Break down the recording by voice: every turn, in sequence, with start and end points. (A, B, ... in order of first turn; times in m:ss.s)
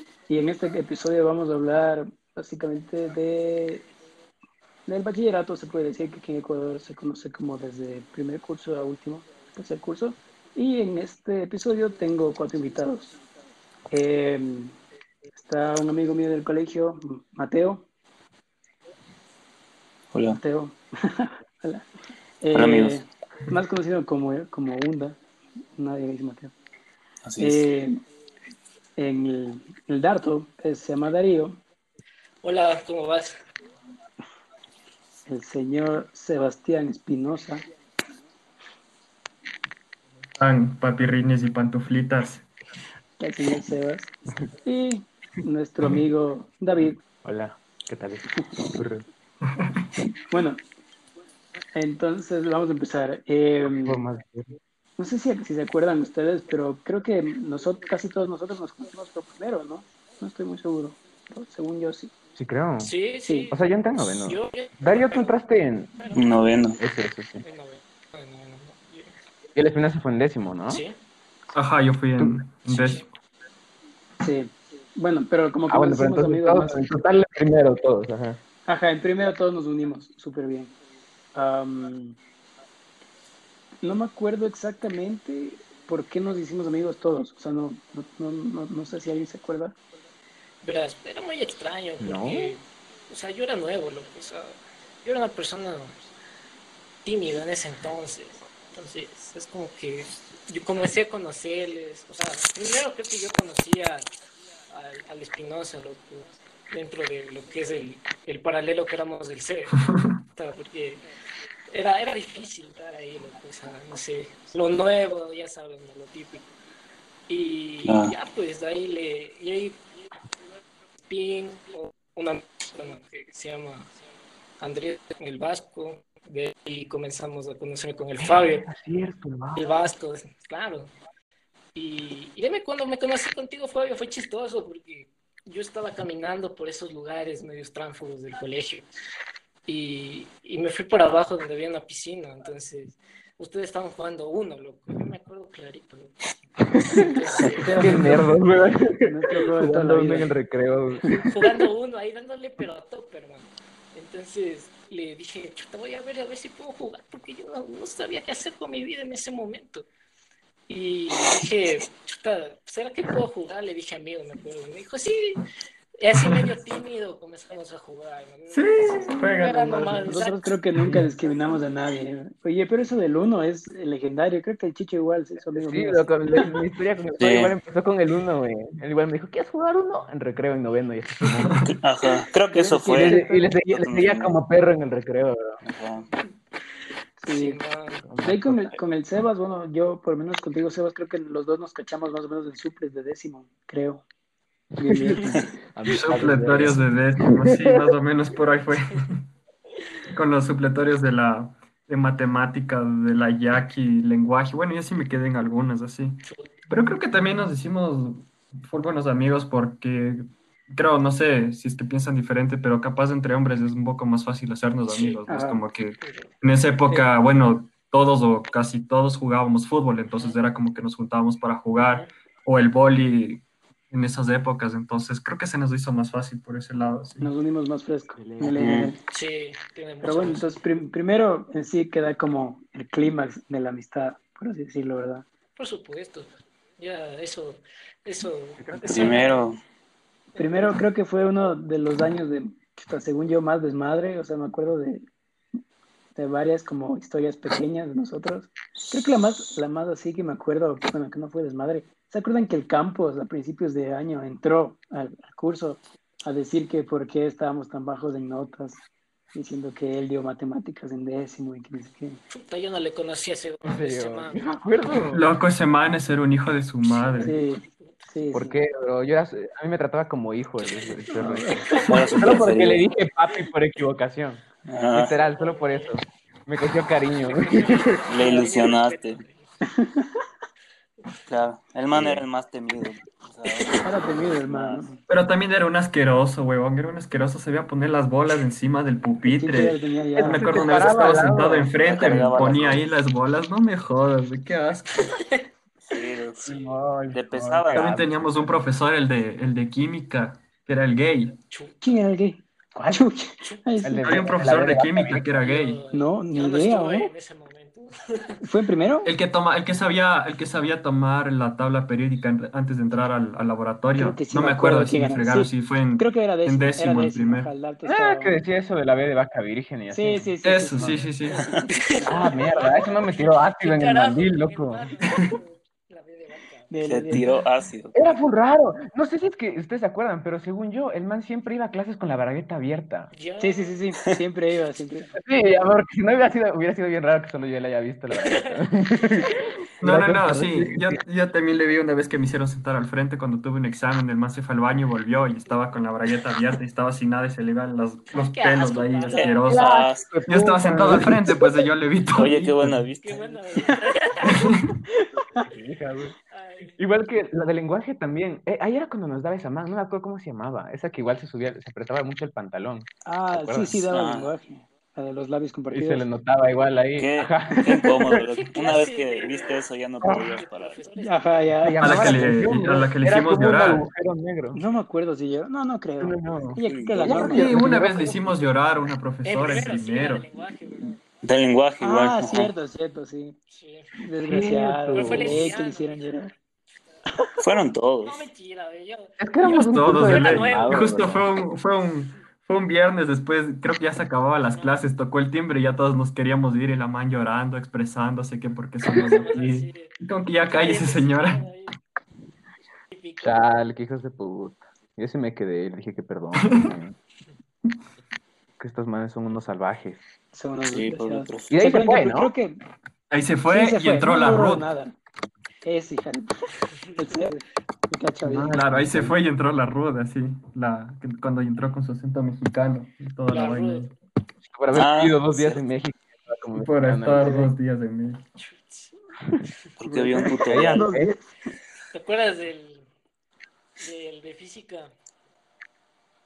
0:00.3-0:03.9 A
0:04.8-0:13.1 A
0:13.9-0:14.8 A
0:15.3-0:17.8 A
0:20.1-0:20.4 B
0:20.3-0:21.8 A
0:22.4-0:25.2 A
0:22.5-0:23.0 B
0:25.8-0:26.5 A
0:27.2-0:27.7 B
0:27.4-0:28.0 A
0:29.0-0:31.6 A
0:32.4-0:33.4 C
0:35.3-0:37.6 A
0:40.4-0:42.4 D
0:43.2-0:44.1 A
0:44.6-0:47.0 A
0:47.2-0:49.0 E
0:50.3-0:50.6 A
0:51.7-0:54.0 A
0:53.6-0:54.6 E
0:55.0-1:02.1 A
1:02.4-1:02.9 E
1:02.8-1:06.6 C
1:03.2-1:03.5 A
1:03.5-1:06.0 E
1:06.1-1:06.8 B
1:06.8-1:07.4 E
1:07.4-1:09.1 C
1:09.5-1:10.8 E
1:10.7-1:11.0 C
1:11.5-1:13.1 D
1:12.2-1:12.4 E
1:12.7-1:13.0 C
1:14.2-1:16.8 A
1:15.7-1:18.4 E
1:18.7-1:20.7 A
1:21.3-1:22.2 A
1:23.8-1:29.8 A
1:30.6-1:36.1 C
1:32.0-1:32.5 E
1:37.0-1:44.1 C
1:44.7-1:49.8 C
1:49.8-1:50.2 D
1:50.4-1:51.0 C
1:51.7-1:56.5 C
1:57.3-1:59.8 C
1:57.8-1:58.1 B
2:01.1-2:03.9 C
2:04.6-2:08.7 C
2:08.2-2:09.8 E
2:09.5-2:10.9 C
2:11.7-2:18.9 C
2:19.6-2:26.2 C
2:26.9-2:28.2 C
2:27.5-2:28.4 A
2:27.8-2:31.4 E
2:29.0-2:30.3 A
2:31.1-2:39.9 C
2:40.7-2:45.4 C
2:46.0-2:50.5 C
2:48.5-2:50.1 D
2:50.0-2:56.1 A
2:55.5-3:01.7 E
2:57.2-2:57.5 B
3:01.6-3:04.3 B
3:02.5-3:04.1 A
3:02.9-3:05.6 E
3:05.6-3:06.0 B
3:07.2-3:07.6 A
3:07.3-3:08.0 C
3:08.0-3:08.6 E
3:08.2-3:14.0 A
3:14.8-3:15.5 A
3:14.8-3:17.9 E
3:15.9-3:19.2 D
3:20.1-3:47.3 D
3:26.2-3:26.5 C
3:34.8-3:35.2 C
3:35.3-3:35.6 A
3:36.0-3:36.3 C
3:40.2-3:40.4 C
3:41.8-3:42.1 C
3:47.2-3:49.0 A
3:48.1-3:48.6 E
3:48.6-3:48.9 B
3:49.1-3:50.5 C
3:50.0-3:55.2 A
3:55.6-3:59.4 C
3:58.6-3:59.1 E
3:58.8-3:59.6 B
4:00.3-4:00.8 C
4:00.4-4:05.0 A
4:06.2-4:22.2 A
4:22.3-4:25.0 C
4:23.6-4:25.3 E
4:25.1-4:27.4 D
4:26.8-4:27.9 C
4:27.2-4:28.6 A
4:28.3-4:38.0 E
4:30.6-4:31.0 C
4:31.1-4:31.9 A
4:31.6-4:32.3 C
4:31.8-4:32.8 B
4:34.7-4:35.1 B
4:35.2-4:36.0 C
4:37.2-4:39.5 C
4:38.1-4:39.2 B
4:39.6-4:40.1 A
4:41.3-4:44.9 B
4:41.9-4:42.2 E
4:43.8-4:45.0 A
4:45.1-4:55.2 D
4:49.2-4:50.6 A
4:50.2-4:51.7 E
4:51.8-4:52.9 B
4:55.1-4:55.4 C
4:55.9-4:58.0 B
4:56.4-4:58.1 E
4:57.7-5:01.4 D
5:01.5-5:01.8 C
5:01.8-5:04.3 A
5:03.8-5:05.3 E
5:04.0-5:05.8 D
5:05.1-5:08.4 C
5:05.9-5:07.1 A
5:08.4-5:09.1 A
5:09.0-5:17.5 D
5:14.0-5:18.4 A
5:17.8-5:21.1 E
5:19.9-5:22.4 A
5:20.4-5:21.4 D
5:21.7-5:26.8 C
5:22.0-5:24.9 E
5:26.7-5:27.4 A
5:26.8-5:28.0 B
5:27.9-5:33.1 E
5:33.1-5:33.8 C
5:33.4-5:35.2 A
5:35.2-5:41.0 E
5:38.1-5:38.6 C
5:39.2-5:39.4 C
5:39.8-5:49.7 D
5:48.3-5:49.4 C
5:49.1-5:50.1 B
5:49.5-5:51.5 E
5:50.2-5:52.8 D
5:52.1-5:53.4 B
5:53.0-5:54.5 C
5:54.3-5:54.6 D
5:55.0-5:55.5 A
5:55.4-5:56.1 E
5:56.3-5:56.8 C
5:56.8-6:03.8 E
6:03.0-6:06.0 A
6:03.9-6:04.3 B
6:05.7-6:07.9 E
6:07.0-6:10.8 B
6:07.8-6:08.1 A
6:08.3-6:09.6 C
6:10.0-6:10.3 A
6:10.3-6:11.5 C
6:11.0-6:12.2 A
6:11.6-6:14.6 E
6:11.8-6:13.8 D
6:14.5-6:17.6 A
6:16.0-6:18.4 E
6:16.6-6:17.3 B
6:17.3-6:20.2 D
6:19.2-6:21.0 C
6:21.2-6:22.5 B
6:21.8-6:23.4 A
6:23.5-6:23.9 C
6:24.0-6:26.3 A
6:24.2-6:25.4 E
6:24.9-6:26.3 C
6:27.4-6:28.2 B
6:28.0-6:31.0 C
6:29.2-6:31.2 E
6:29.4-6:41.4 D
6:34.5-6:34.8 C
6:38.9-6:41.8 C
6:39.0-6:39.4 E
6:42.9-6:43.5 C
6:43.2-6:47.0 E
6:46.4-6:46.8 D
6:48.6-6:50.0 E
6:50.3-6:52.6 A
6:50.7-6:51.5 B
6:51.5-6:52.3 E
6:53.1-6:54.7 D
6:53.5-6:54.9 A
6:55.6-6:56.4 A
6:57.0-6:58.6 A
6:58.2-6:59.2 E
6:58.5-7:03.9 D
7:03.3-7:03.9 C
7:04.5-7:07.5 E
7:04.7-7:05.6 B
7:06.5-7:08.2 D
7:07.2-7:07.5 A
7:08.4-7:08.9 C
7:09.8-7:10.9 B
7:09.8-7:11.2 A
7:10.4-7:11.1 E
7:11.9-7:12.8 C
7:13.8-7:14.9 C